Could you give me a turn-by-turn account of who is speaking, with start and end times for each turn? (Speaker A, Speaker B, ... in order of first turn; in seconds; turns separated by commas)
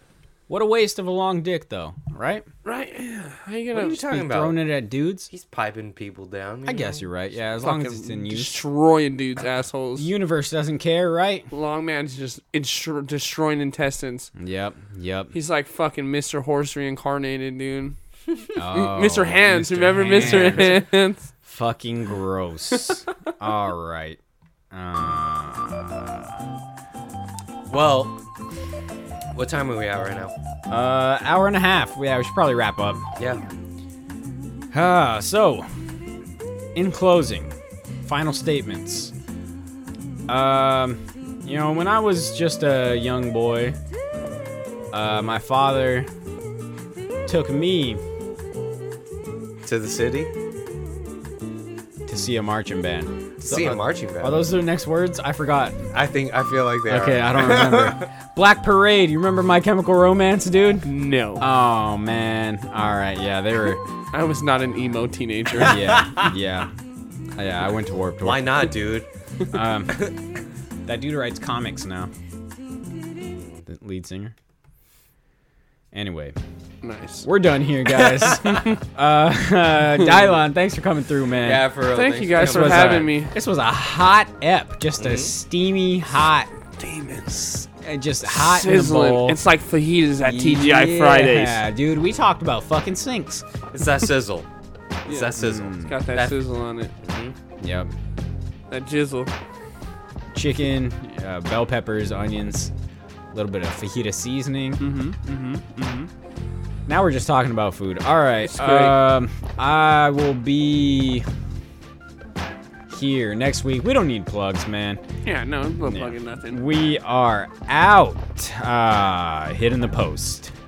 Speaker A: 0.5-2.5, Speaker B: 2.6-4.0, Speaker C: 3.7-4.8, Speaker A: 4.0-5.3, Speaker C: 5.3-7.1, Speaker A: 6.7-8.6, Speaker B: 7.6-10.1, Speaker A: 10.0-11.5, Speaker B: 11.5-14.3, Speaker A: 14.4-15.3, Speaker B: 15.3-18.0, Speaker A: 18.6-20.9, Speaker B: 18.7-21.3, Speaker A: 21.4-24.2, Speaker A: 24.7-26.4, Speaker C: 27.7-28.2, Speaker C: 29.3-30.3, Speaker A: 30.7-33.0, Speaker C: 33.2-33.5, Speaker A: 34.7-35.7, Speaker A: 36.8-39.1, Speaker A: 40.3-43.8, Speaker A: 44.9-46.1, Speaker A: 47.3-48.0, Speaker C: 49.6-50.3, Speaker A: 52.1-55.9, Speaker C: 53.4-54.5, Speaker C: 55.9-58.1, Speaker A: 56.9-63.9, Speaker B: 60.9-61.5, Speaker B: 64.1-66.0, Speaker A: 65.6-66.7, Speaker A: 67.4-68.6, Speaker C: 68.2-69.1, Speaker A: 69.5-70.1, Speaker A: 70.9-72.1, Speaker C: 73.4-73.6, Speaker A: 73.7-74.3, Speaker A: 75.9-76.4, Speaker B: 76.8-77.3, Speaker A: 77.2-81.7, Speaker B: 78.2-78.8, Speaker B: 80.0-80.4, Speaker C: 81.4-83.2, Speaker B: 81.9-83.3, Speaker A: 82.3-86.5, Speaker C: 85.0-85.3, Speaker B: 86.8-87.7, Speaker A: 87.8-89.4, Speaker B: 88.2-91.6, Speaker A: 90.2-93.5, Speaker C: 93.7-94.5, Speaker C: 95.1-96.4, Speaker B: 95.1-96.9, Speaker A: 95.4-96.0, Speaker C: 97.0-97.4, Speaker A: 97.6-97.9, Speaker B: 98.7-99.3, Speaker A: 100.3-102.7, Speaker A: 103.3-104.8, Speaker B: 104.8-106.1, Speaker A: 106.9-111.3, Speaker B: 108.4-109.1, Speaker A: 112.9-115.0, Speaker B: 115.2-116.6, Speaker A: 115.8-120.5